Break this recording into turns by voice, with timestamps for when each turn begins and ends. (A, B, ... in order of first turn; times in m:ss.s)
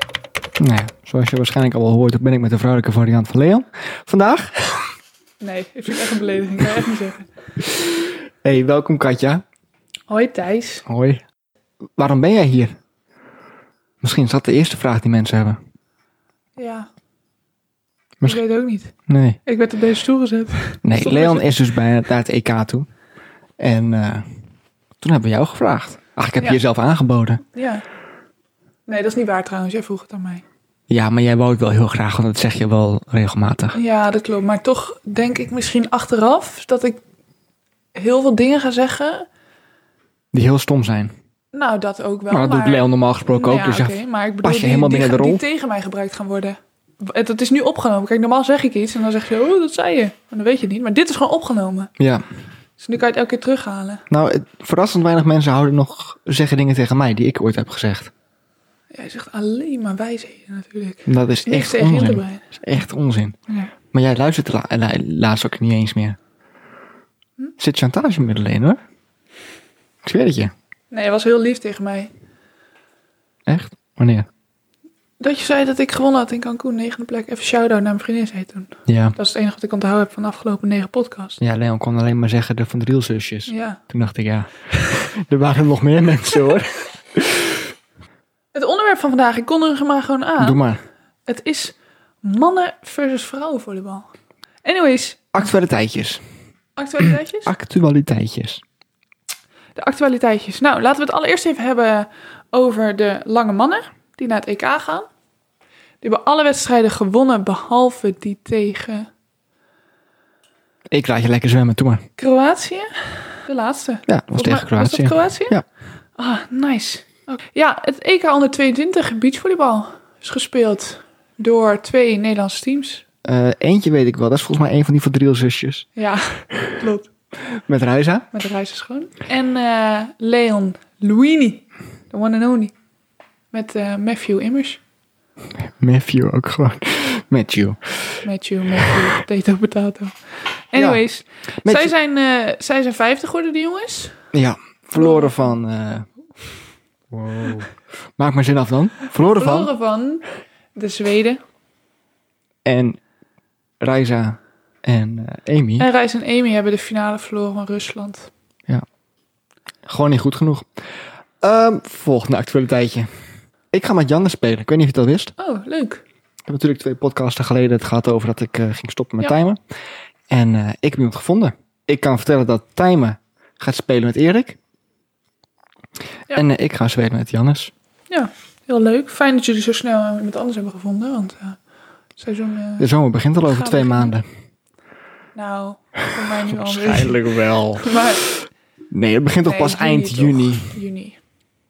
0:00.6-0:04.9 A
0:05.4-0:07.3 B
0:07.7-0:09.4 A
0:10.1-0:10.8 B
0:10.8-0:11.2 A
0:12.0-0:12.8 A
0:14.0-0:15.6 A
0:16.6-0:16.9 B
0:18.2-0:18.9 B
0:19.1-0:19.4 A
0:19.4-0:21.6 B
0:20.8-0:22.9 A
0:23.6-0:24.2 A
0:25.0-0:27.4 A
0:27.5-0:27.8 B
0:28.9-0:30.4 B
0:30.9-0:33.8 A
0:33.7-0:37.0 B
0:37.9-0:39.3 B
0:40.3-0:41.1 A
0:41.5-0:51.9 B
0:42.3-0:45.4 A
0:52.8-0:54.0 B
0:54.1-0:58.1 A
0:58.9-1:02.4 B
1:01.0-1:03.4 A
1:03.9-1:06.2 A
1:07.6-1:08.8 A
1:10.0-1:10.5 A
1:10.9-1:12.1 B
1:13.5-1:14.3 A
1:15.2-1:21.4 B
1:18.9-1:19.2 A
1:21.4-1:27.6 A
1:23.5-1:23.8 B
1:28.5-1:30.6 B
1:30.4-1:30.8 A
1:31.3-1:34.1 B
1:34.6-1:35.3 B
1:35.3-1:36.2 A
1:36.8-1:37.5 B
1:37.4-1:38.6 A
1:39.8-1:45.1 B
1:46.0-1:49.1 B
1:50.9-1:52.0 A
1:52.2-1:55.6 B
1:54.1-1:55.6 A
1:56.2-2:03.0 B
2:03.2-2:05.8 A
2:06.0-2:07.1 B
2:07.6-2:08.3 A
2:08.3-2:12.7 B
2:13.5-2:14.8 B
2:15.6-2:18.2 A
2:18.2-2:20.1 B
2:20.7-2:24.2 B
2:20.7-2:21.0 A
2:21.6-2:21.9 A
2:24.3-2:26.1 A
2:24.9-2:25.5 B
2:27.1-2:29.7 A
2:29.3-2:30.2 B
2:30.7-2:31.4 B
2:32.6-2:33.0 A
2:33.8-2:35.9 A
2:35.8-2:38.3 B
2:39.8-2:40.7 A
2:41.4-2:43.1 A
2:43.7-2:45.3 A
2:45.4-2:46.0 B
2:46.4-2:49.6 A
2:50.3-2:54.6 A
2:56.3-2:57.7 A
2:58.1-3:01.6 B
3:02.2-3:02.9 B
3:02.8-3:04.2 A
3:03.4-3:04.2 B
3:05.3-3:07.2 B
3:06.4-3:08.3 A
3:07.8-3:08.2 B
3:08.9-3:10.8 A
3:09.4-3:11.2 B